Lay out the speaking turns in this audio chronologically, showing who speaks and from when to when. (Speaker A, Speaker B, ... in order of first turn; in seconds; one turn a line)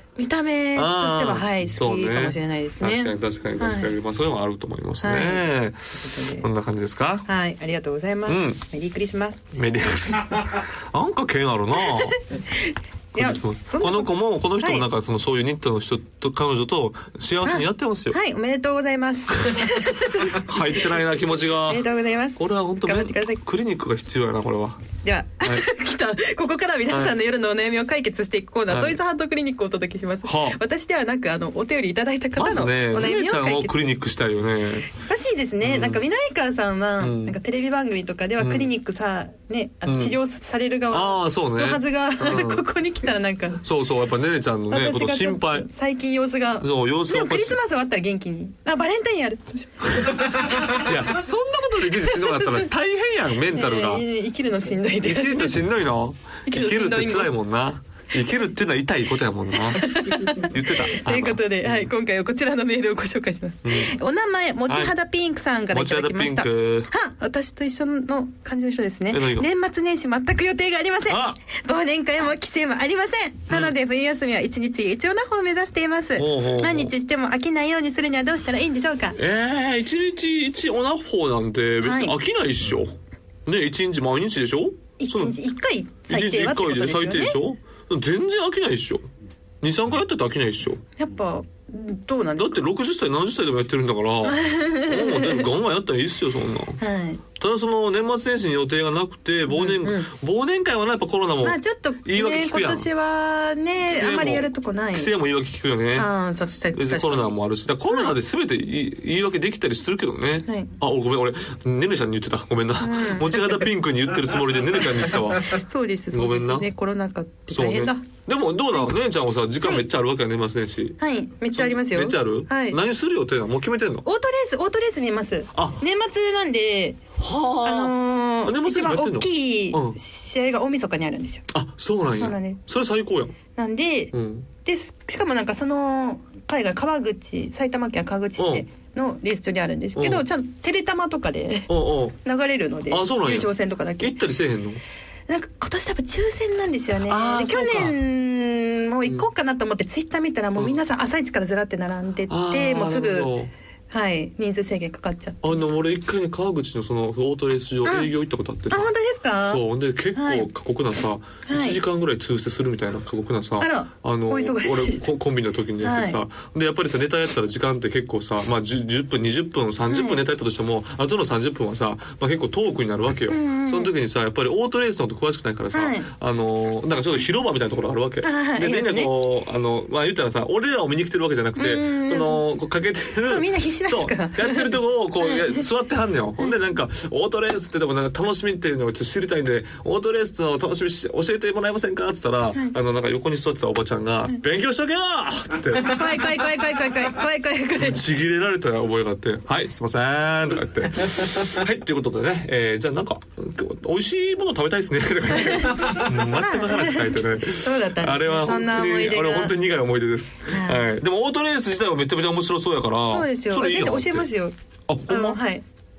Speaker A: 0.2-3.9
Speaker B: 0.7-5.8
Speaker A: 5.0-5.5
Speaker A: 6.0-6.5
Speaker B: 6.4-7.2
Speaker A: 7.2-9.5
Speaker B: 8.3-8.6
Speaker B: 9.5-12.2
Speaker A: 11.7-14.8
Speaker B: 13.1-18.2
Speaker A: 17.4-20.9
Speaker B: 19.4-24.8
Speaker A: 21.6-23.4
Speaker A: 25.0-33.8
Speaker B: 25.4-25.7
Speaker B: 26.9-27.2
Speaker B: 28.7-29.0
Speaker B: 30.2-30.6
Speaker B: 32.4-34.9
Speaker A: 34.9-43.6
Speaker B: 35.6-36.0
Speaker B: 37.0-37.4
Speaker B: 38.4-38.7
Speaker B: 39.9-40.2
Speaker B: 40.9-42.6
Speaker B: 43.6-45.7
Speaker A: 44.7-50.8
Speaker B: 46.6-47.6
Speaker B: 49.9-54.0
Speaker A: 52.0-52.7
Speaker A: 53.5-55.6
Speaker B: 55.0-61.9
Speaker A: 56.5-57.3
Speaker A: 59.5-79.2
Speaker B: 63.6-63.9
Speaker B: 64.7-64.9
Speaker B: 65.7-66.9
Speaker B: 69.1-69.5
Speaker B: 71.0-71.4
Speaker B: 73.5-73.7
Speaker B: 76.2-76.9
Speaker B: 79.1-85.4
Speaker A: 81.8-82.2
Speaker A: 85.0-87.4
Speaker B: 86.1-89.0
Speaker B: 89.6-90.8
Speaker A: 91.0-92.6
Speaker B: 92.4-96.8
Speaker A: 94.2-95.5
Speaker A: 96.8-97.2
Speaker B: 97.4-102.9
Speaker A: 99.5-100.1
Speaker A: 101.4-105.1
Speaker B: 103.8-106.1
Speaker A: 105.9-107.3
Speaker B: 106.7-116.7
Speaker A: 107.9-108.1
Speaker A: 110.5-110.7
Speaker A: 112.8-113.6
Speaker A: 115.4-118.1
Speaker B: 117.5-121.0
Speaker A: 121.0-122.8
Speaker B: 121.5-124.0
Speaker A: 124.0-127.0
Speaker B: 125.5-125.8
Speaker B: 127.2-130.0
Speaker A: 127.6-131.4
Speaker B: 131.5-133.4
Speaker A: 132.2-132.6
Speaker A: 133.5-134.1
Speaker B: 134.1-134.5
Speaker A: 134.6-141.7
Speaker B: 138.4-138.6
Speaker B: 139.9-140.2
Speaker B: 141.7-142.2
Speaker A: 142.2-144.2
Speaker B: 142.9-144.8
Speaker A: 145.3-153.3
Speaker B: 147.0-148.0
Speaker B: 152.3-153.5
Speaker A: 153.9-155.7
Speaker B: 155.4-158.9
Speaker A: 157.8-158.1
Speaker A: 158.7-159.6
Speaker B: 159.4-196.4
Speaker A: 160.1-160.5
Speaker A: 161.4-161.8
Speaker A: 163.6-165.1
Speaker A: 165.8-166.2
Speaker A: 169.9-170.2
Speaker A: 173.3-173.9
Speaker A: 175.7-176.1
Speaker A: 178.2-179.1
Speaker A: 181.6-182.6
Speaker A: 183.2-185.6
Speaker A: 195.8-198.0
Speaker B: 197.8-214.3
Speaker A: 205.3-209.5
Speaker A: 210.4-210.9
Speaker A: 213.1-214.5
Speaker B: 214.9-215.4
Speaker A: 215.1-215.6